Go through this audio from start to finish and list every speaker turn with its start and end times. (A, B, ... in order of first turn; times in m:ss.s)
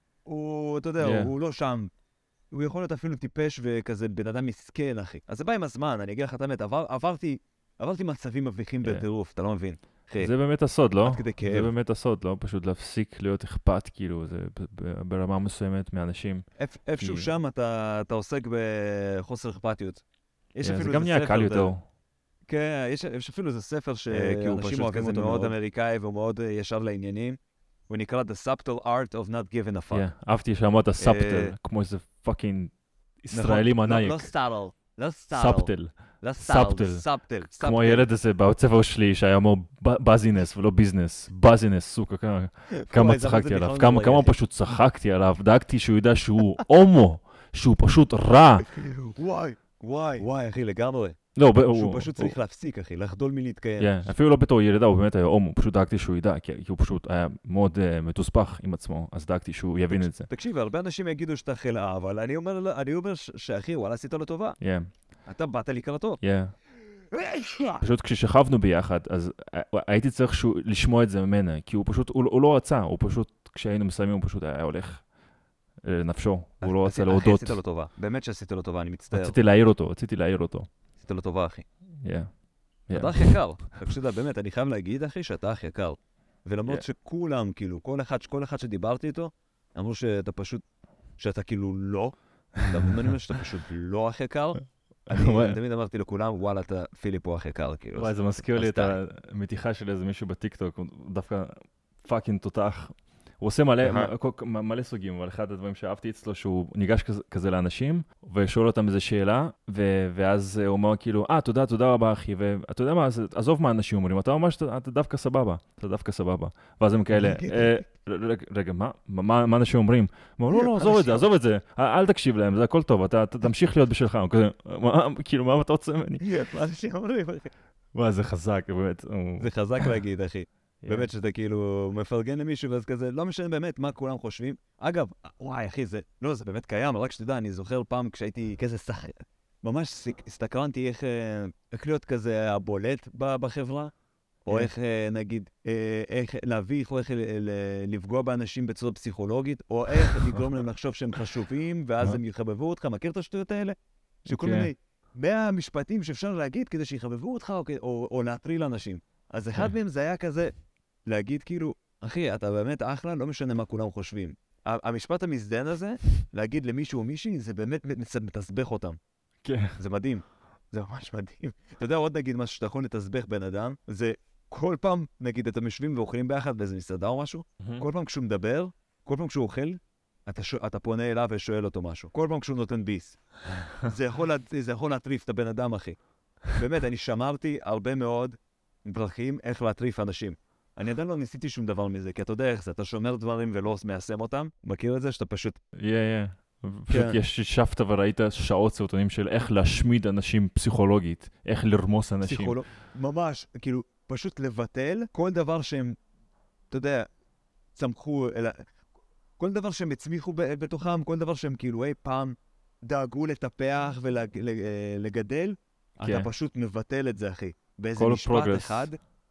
0:00.3-0:01.9 A
0:01.0-0:01.3 B
0:02.5-0:10.3 A
0:10.2-0:16.5 B
0:11.0-0:11.7 A
0:16.6-0:20.0 A
0:17.0-0:17.3 B
0:20.5-0:21.7 A
0:20.6-0:21.8 B
0:22.5-0:27.4 A
0:24.1-0:25.5 B
0:27.9-0:30.1 A
0:29.9-0:34.3 B
0:31.0-0:31.6 A
0:33.3-0:38.1 A
0:35.3-0:48.7 B
0:42.8-0:44.4 A
0:48.6-0:51.2 A
0:51.4-0:52.4 B
0:51.7-0:53.9 A
0:53.8-1:00.3 B
0:59.9-1:04.6 A
1:04.6-1:04.9 B
1:05.3-1:06.2 A
1:06.2-1:06.6 B
1:07.1-1:07.8 A
1:07.8-1:15.1 B
1:15.8-1:17.6 B
1:16.6-1:19.4 A
1:19.1-1:20.7 B
1:21.0-1:21.6 A
1:22.0-1:22.4 B
1:22.9-1:23.4 B
1:22.9-1:30.6 A
1:31.2-1:39.0 A
1:35.1-1:35.6 B
1:38.0-2:06.2 B
1:43.8-1:44.1 A
1:57.1-1:57.7 A
2:00.5-2:01.3 A
2:06.2-2:07.5 A
2:08.0-2:09.9 B
2:09.4-2:23.9 A
2:10.8-2:11.1 B
2:24.5-2:33.8 A
2:30.1-2:30.4 B
2:34.3-2:40.5 A
2:34.3-2:34.7 B
2:41.1-2:49.0 A
2:49.4-2:49.8 B
2:49.8-3:06.0 A
3:06.5-3:15.6 A
3:15.8-3:22.6 B
3:16.9-3:17.2 A
3:22.2-3:26.0 A
3:26.7-3:27.1 A
3:27.8-3:28.6 A
3:29.4-3:39.0 A
3:36.0-3:36.3 B
3:38.0-3:38.9 B